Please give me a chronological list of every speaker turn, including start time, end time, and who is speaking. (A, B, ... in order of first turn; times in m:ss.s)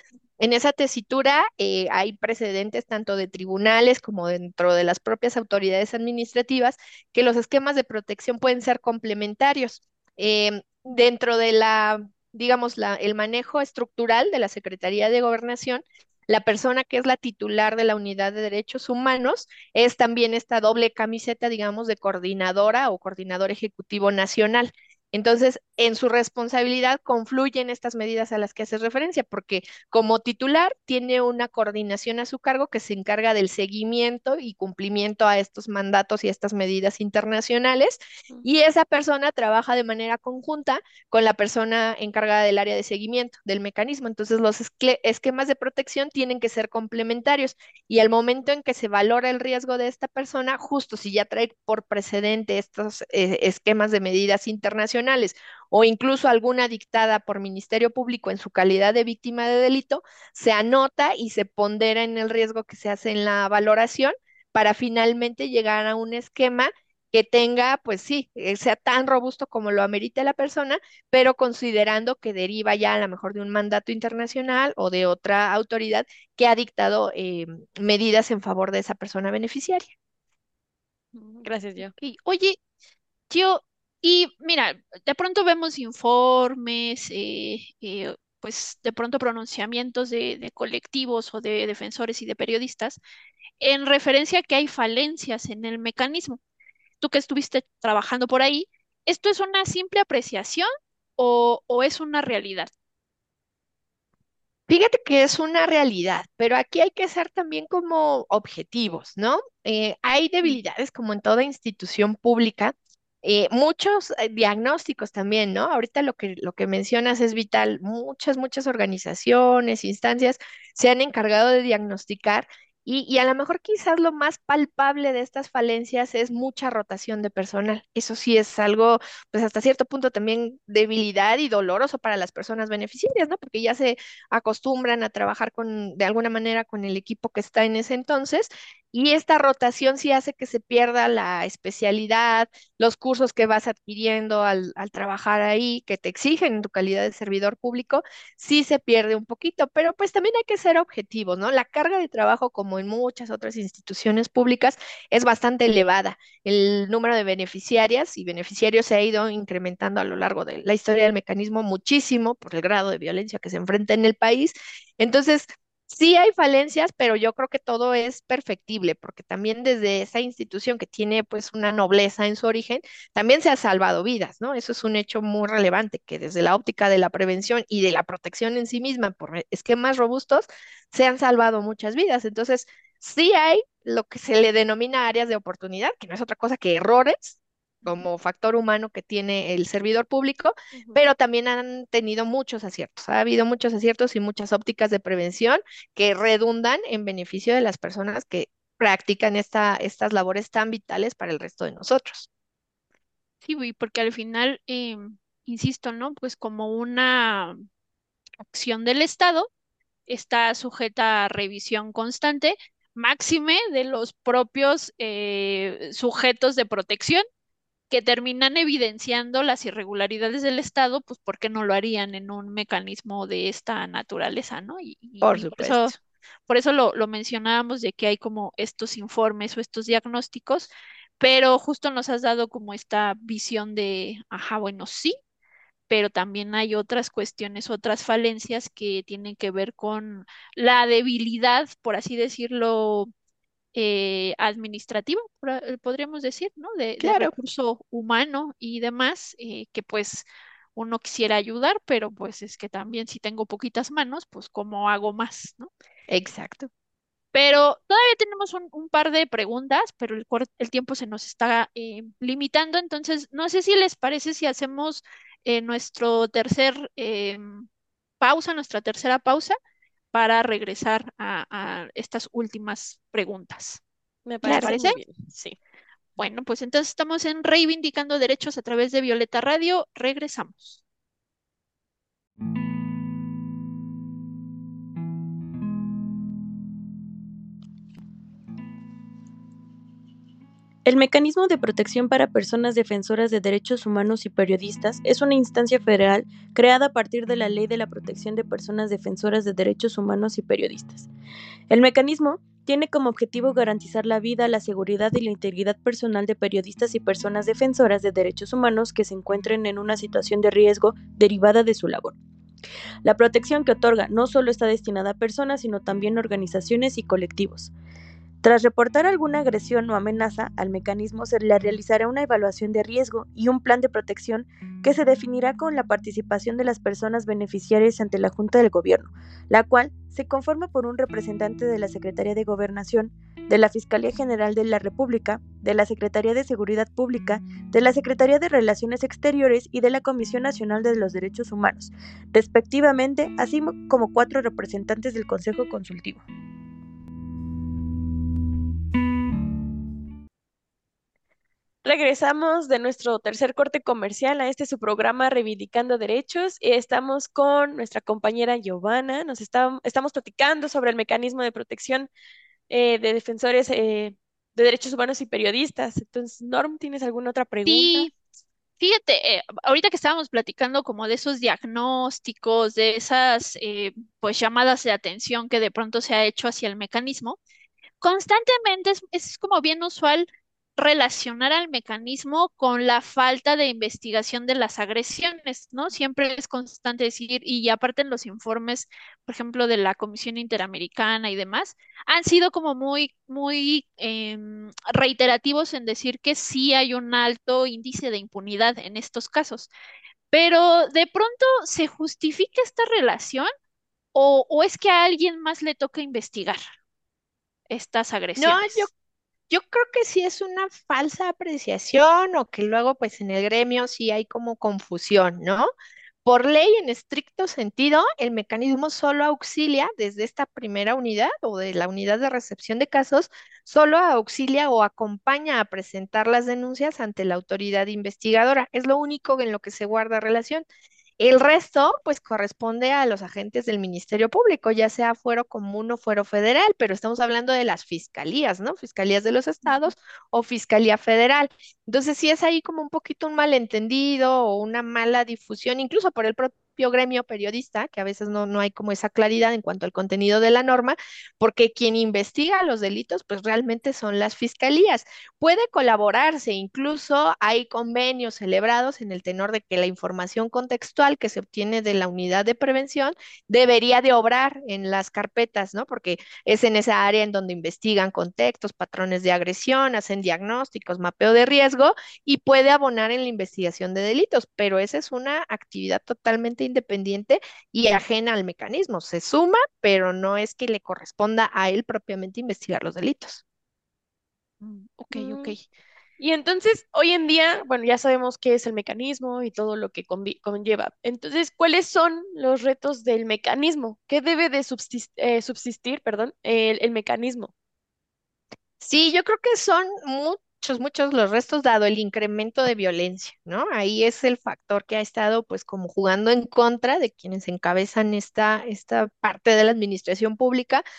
0:00.4-1:19.9 A
1:21.4-1:21.9 B
1:21.8-1:22.6 C
1:23.3-1:33.0 C
1:33.6-1:36.4 C
1:37.0-1:40.7 C
1:41.2-1:42.7 C
1:44.7-3:22.3 A
3:23.4-3:27.6 C
3:28.5-3:29.5 C
3:30.1-3:37.2 C
3:37.9-3:46.0 C
3:45.2-3:46.0 A
3:46.5-3:55.2 C
3:55.9-4:03.1 C
4:03.8-4:15.7 C
4:07.0-4:07.3 A
4:16.1-4:16.7 A
4:17.3-4:27.7 C
4:28.2-4:29.6 C
4:30.1-4:33.8 C
4:34.3-4:35.6 B
4:34.4-4:35.0 C
4:34.5-4:34.8 A
4:36.2-4:40.8 C
4:50.8-5:01.1 D
5:01.7-5:12.2 D
5:13.0-5:17.7 D
5:18.4-5:46.2 D
5:51.8-6:02.1 B
6:02.7-6:08.1 B
6:07.7-6:08.1 C
6:08.8-6:17.4 C
6:18.0-6:20.3 C
6:20.8-6:39.7 C
6:40.3-6:43.5 C
6:44.1-6:46.6 C
6:47.7-6:48.9 C
6:48.4-6:48.9 A
6:49.5-6:55.7 A
6:56.2-7:10.7 A
7:11.2-8:03.4 A
8:04.6-8:05.6 C
8:05.1-8:05.6 B
8:06.2-8:17.5 B
8:18.8-8:30.8 A